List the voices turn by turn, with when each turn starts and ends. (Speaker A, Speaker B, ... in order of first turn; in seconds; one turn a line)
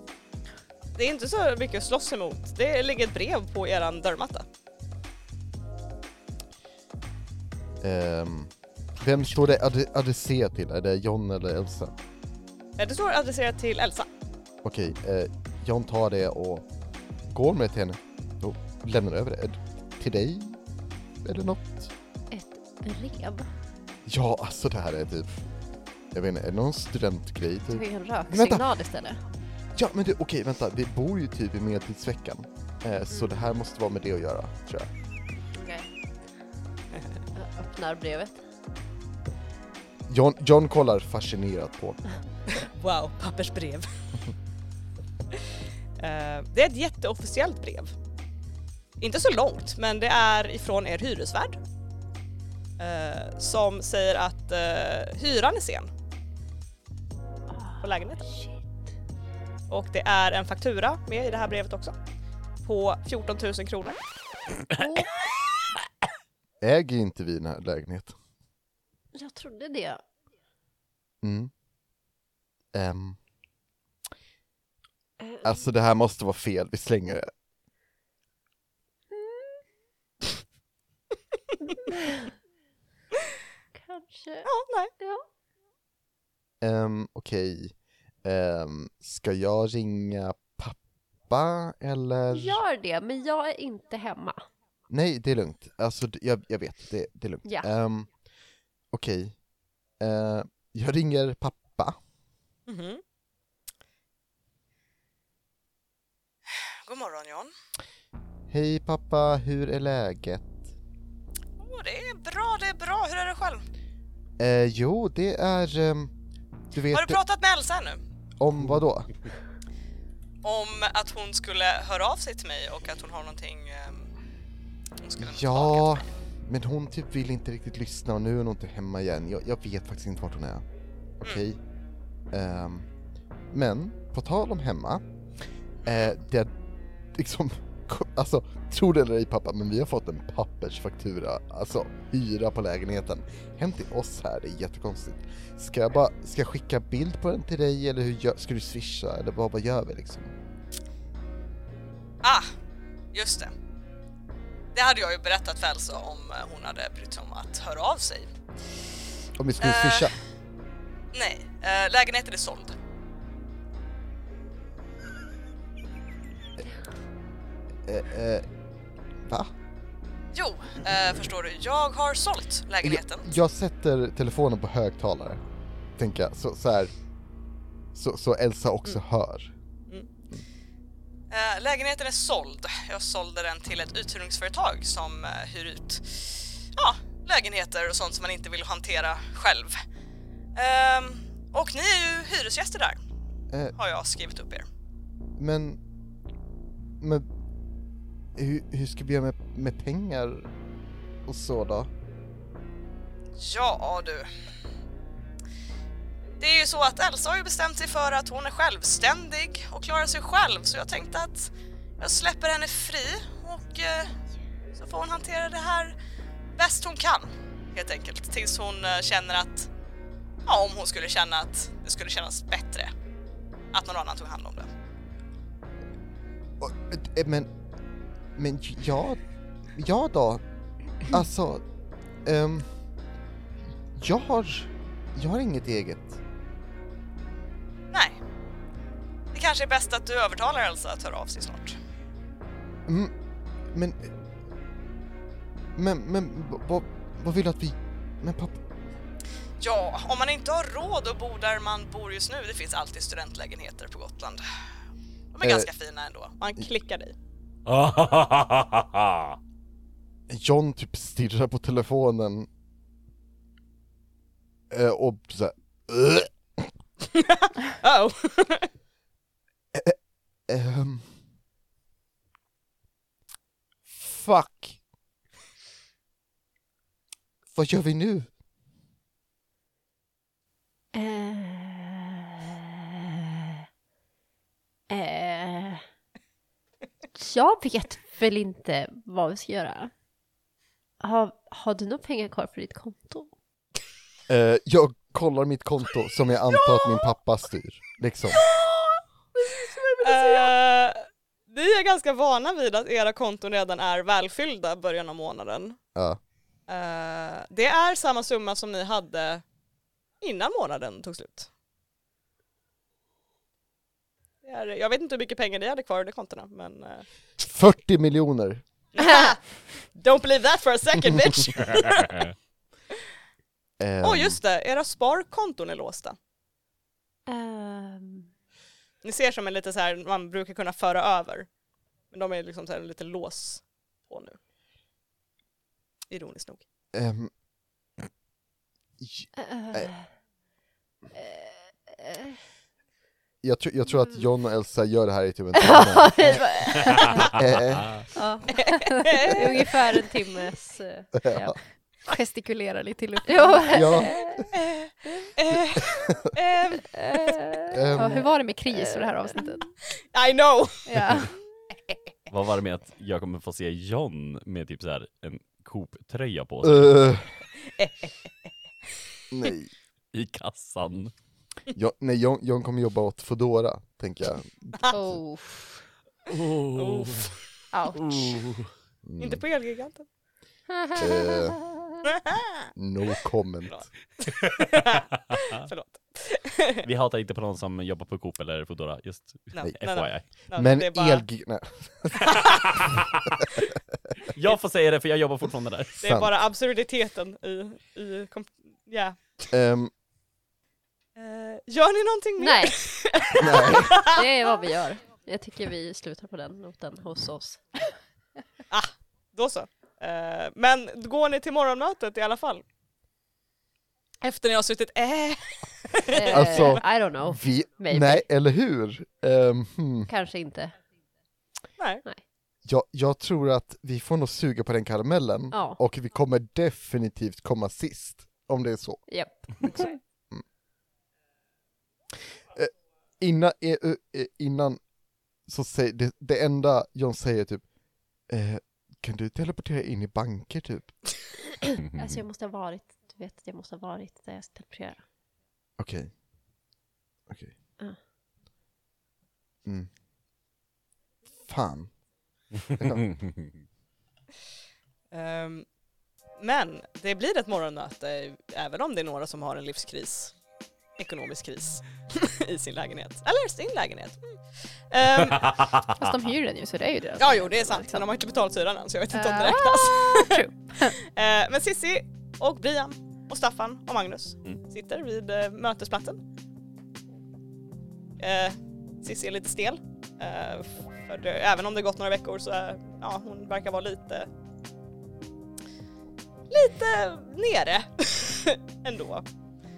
Speaker A: 1.0-4.5
Speaker B: 7.8-11.9
Speaker A: 12.8-14.1
Speaker B: 14.6-16.6
Speaker B: 17.3-20.6
Speaker B: 21.2-21.9
Speaker C: 22.3-23.5
Speaker B: 24.1-25.4
Speaker B: 26.1-28.7
Speaker C: 27.7-29.2
Speaker B: 29.7-34.9
Speaker C: 37.3-38.4
Speaker B: 40.1-42.0
Speaker A: 42.5-43.9
Speaker A: 46.0-47.9
Speaker A: 49.0-51.6
Speaker A: 52.8-55.9
Speaker C: 57.5-58.6
Speaker A: 57.8-58.2
Speaker A: 59.7-61.9
Speaker A: 62.6-64.0
Speaker C: 64.8-65.1
Speaker B: 66.6-68.1
Speaker C: 69.1-70.0
Speaker B: 71.2-71.5
Speaker B: 72.7-73.2
Speaker C: 75.2-75.5
Speaker B: 75.4-77.3
Speaker C: 79.1-79.4
Speaker C: 81.8-82.3
Speaker C: 83.7-85.2
Speaker A: 84.4-84.9
Speaker B: 86.6-92.6
Speaker C: 92.3-94.4
Speaker B: 94.9-98.1
Speaker B: 98.9-99.4
Speaker B: 100.0-102.0
Speaker A: 102.7-103.0
Speaker A: 106.8-107.5
Speaker B: 108.5-110.6
Speaker A: 111.6-113.6
Speaker B: 114.4-116.1
Speaker B: 116.7-117.2
Speaker A: 116.9-118.0
Speaker B: 118.4-119.1
Speaker A: 120.4-124.1
Speaker A: 125.0-126.1
Speaker B: 125.2-130.6
Speaker B: 131.2-131.6
Speaker B: 132.3-132.9
Speaker B: 133.5-135.0
Speaker A: 135.8-136.1
Speaker B: 135.8-136.5
Speaker B: 137.1-150.3
Speaker A: 152.2-152.5
Speaker A: 153.1-153.5
Speaker A: 154.7-158.3
Speaker B: 159.4-160.2
Speaker A: 159.6-160.1
Speaker A: 161.1-162.8
Speaker B: 167.8-168.4
Speaker B: 169.2-169.5
Speaker A: 170.3-173.3
Speaker B: 172.8-175.4
Speaker B: 176.0-176.9
Speaker B: 177.9-179.5
Speaker A: 181.3-189.8
Speaker A: 190.6-193.0
Speaker A: 193.7-194.7
Speaker B: 195.4-195.8
Speaker B: 197.0-197.3
Speaker B: 198.3-200.5
Speaker B: 201.2-201.9
Speaker A: 203.4-204.3
Speaker A: 206.4-214.1
Speaker A: 214.7-215.9
Speaker A: 216.6-219.7
Speaker A: 220.4-222.9
Speaker A: 223.7-224.7
Speaker B: 226.6-227.5
Speaker B: 228.3-229.2
Speaker B: 229.7-230.4
Speaker B: 231.0-231.6
Speaker B: 232.2-232.7
Speaker B: 233.9-236.2
Speaker A: 237.9-238.2
Speaker A: 239.3-241.8
Speaker B: 242.9-243.1
Speaker B: 243.7-244.1
Speaker B: 245.8-248.6
Speaker A: 249.6-254.4
Speaker A: 255.3-257.1
Speaker B: 255.4-255.7
Speaker D: 257.6-259.4
Speaker B: 260.3-262.5
Speaker B: 264.7-266.7
Speaker A: 267.0-268.7
Speaker B: 269.7-271.1
Speaker B: 273.9-274.8
Speaker B: 277.5-278.3
Speaker C: 280.9-283.6
Speaker C: 284.9-285.8
Speaker C: 287.1-289.9
Speaker C: 291.0-293.3
Speaker B: 294.3-298.4
Speaker C: 299.4-300.5
Speaker A: 300.0-305.8
Speaker A: 306.7-309.4
Speaker A: 310.2-311.5
Speaker A: 314.4-317.1
Speaker B: 317.4-318.6
Speaker A: 318.9-322.2
Speaker C: 319.0-319.3
Speaker B: 323.8-324.4
Speaker A: 324.0-326.2
Speaker C: 327.3-328.3
Speaker A: 329.0-331.5
Speaker A: 332.1-334.4
Speaker A: 336.1-336.6
Speaker B: 336.9-337.3
Speaker B: 339.0-339.9
Speaker C: 339.4-340.1
Speaker C: 341.1-342.4
Speaker B: 343.4-348.0
Speaker C: 345.5-347.3
Speaker C: 348.1-351.5
Speaker A: 348.5-349.7
Speaker B: 351.1-351.5
Speaker E: 352.0-354.1
Speaker C: 353.2-354.4
Speaker B: 353.7-354.4
Speaker A: 354.5-357.2
Speaker C: 357.1-358.1
Speaker B: 357.7-358.3
Speaker E: 357.9-359.7
Speaker C: 358.7-359.3
Speaker A: 360.1-361.1
Speaker E: 360.9-361.3
Speaker D: 362.3-367.0
Speaker B: 366.6-367.3
Speaker A: 367.6-368.5
Speaker B: 369.3-369.7
Speaker D: 370.1-371.1
Speaker B: 371.7-375.2
Speaker C: 374.9-375.8
Speaker D: 376.3-377.3
Speaker A: 376.7-377.4
Speaker C: 377.7-378.3
Speaker D: 377.9-378.7
Speaker B: 379.0-379.4
Speaker A: 379.2-380.1
Speaker C: 380.7-381.8
Speaker B: 380.9-381.7
Speaker A: 382.0-382.7
Speaker B: 382.7-383.9
Speaker A: 383.6-386.9
Speaker D: 386.8-390.2
Speaker A: 389.5-391.2
Speaker B: 390.4-392.5
Speaker D: 394.3-395.9
Speaker B: 396.0-396.3
Speaker A: 396.0-399.4
Speaker B: 399.5-399.9
Speaker A: 401.1-404.2
Speaker C: 402.4-402.8
Speaker B: 403.4-404.1
Speaker C: 403.9-407.6
Speaker A: 408.7-412.6
Speaker A: 414.2-416.8
Speaker C: 416.1-418.2
Speaker B: 416.2-420.1
Speaker C: 420.1-420.8
Speaker A: 421.8-422.0
Speaker B: 422.6-429.1
Speaker C: 425.5-425.8
Speaker C: 429.1-429.9
Speaker B: 429.6-430.4
Speaker B: 432.5-434.8
Speaker B: 435.4-437.6
Speaker B: 438.3-440.9
Speaker C: 441.9-445.0
Speaker B: 445.8-446.1
Speaker B: 447.3-447.5
Speaker B: 449.6-449.9
Speaker B: 451.4-452.0
Speaker B: 452.7-453.1
Speaker A: 455.1-455.7
Speaker A: 456.4-460.4
Speaker A: 461.0-465.6
Speaker E: 465.9-468.0
Speaker A: 467.2-476.2
Speaker E: 469.1-470.9
Speaker A: 478.2-484.3
Speaker A: 486.5-489.2